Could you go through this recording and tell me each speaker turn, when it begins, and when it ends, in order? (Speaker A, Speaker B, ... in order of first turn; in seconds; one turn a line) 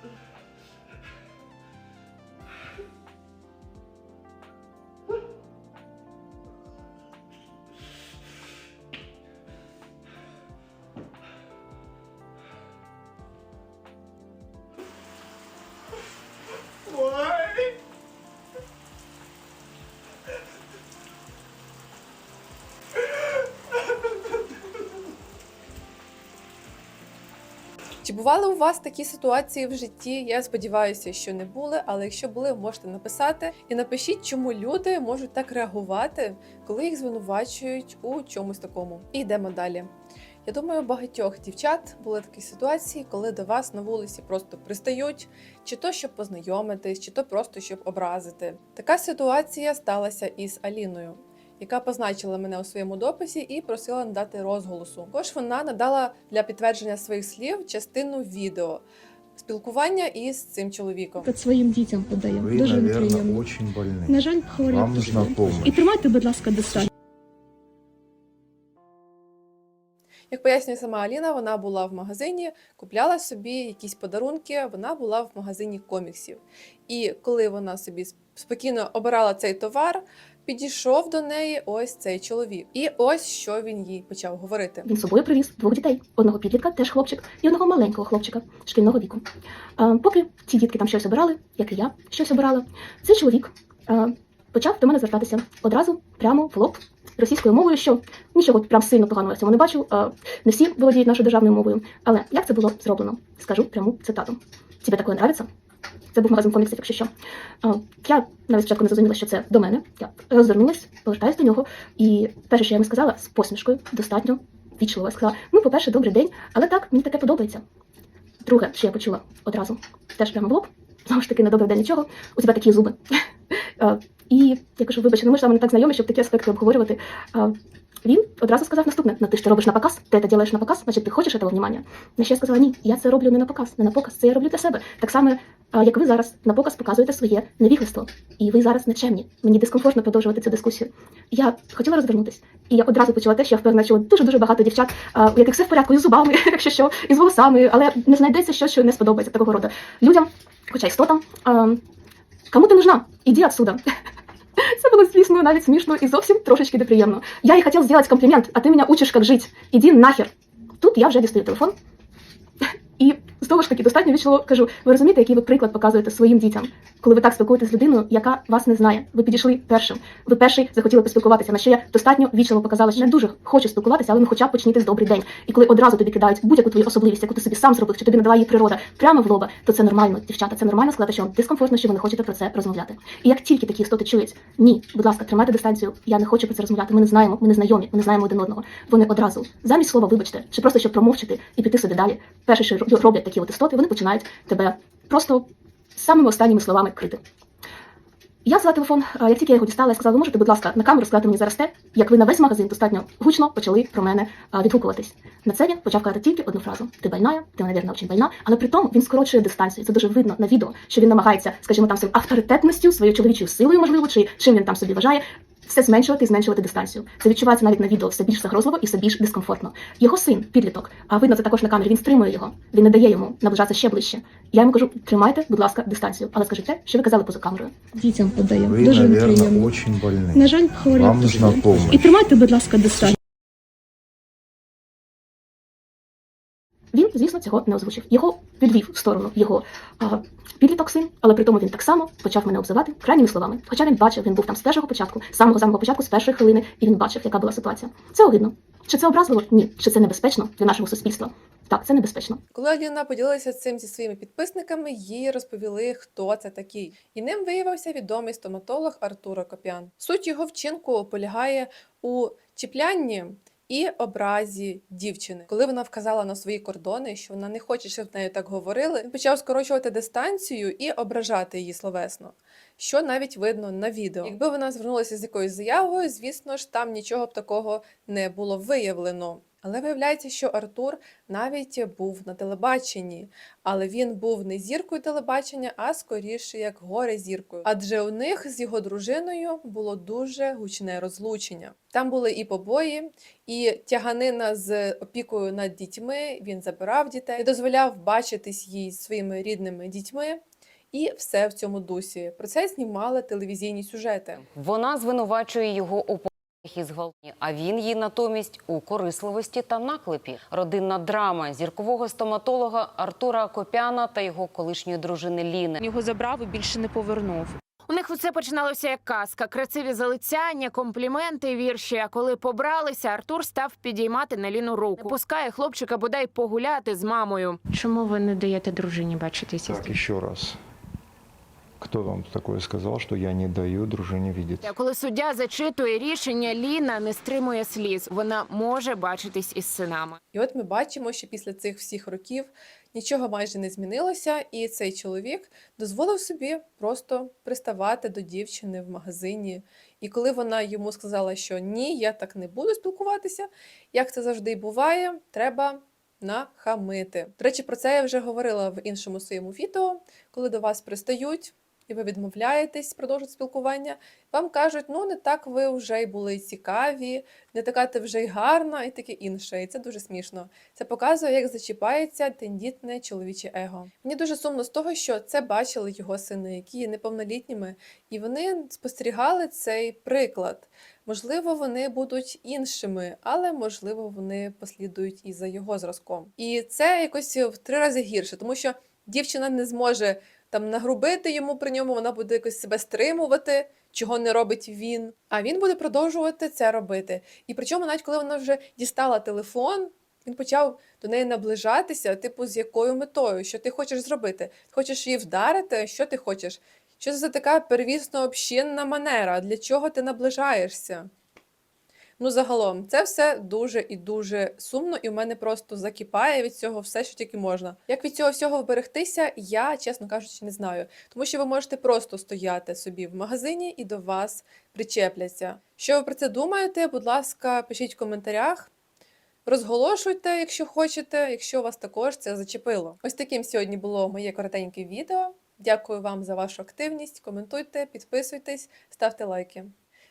Speaker A: 28.0-39.9
Speaker A: 40.5-58.8
Speaker A: 59.4-61.3
Speaker B: 61.2-63.4
Speaker C: 62.4-65.9
Speaker B: 64.1-66.8
Speaker A: 70.3-84.9
Speaker D: 84.8-89.2
Speaker D: 89.8-105.5
Speaker D: 106.1-107.1
Speaker D: 107.6-117.6
Speaker D: 118.4-123.2
Speaker D: 123.8-151.8
Speaker D: 152.5-153.8
Speaker D: 154.6-161.8
Speaker D: 163.0-197.2
Speaker D: 198.4-227.8
Speaker B: 228.0-229.7
Speaker C: 228.7-232.1
Speaker B: 230.3-233.1
Speaker D: 236.9-252.4
Speaker A: 252.5-300.4
Speaker A: 300.9-304.4
Speaker E: 304.4-315.8
Speaker F: 317.9-330.0
Speaker C: 329.6-330.6
Speaker C: 331.8-334.7
Speaker F: 334.6-340.2
Speaker A: 340.3-411.1
Speaker A: 412.2-428.7
Speaker A: 429.5-439.7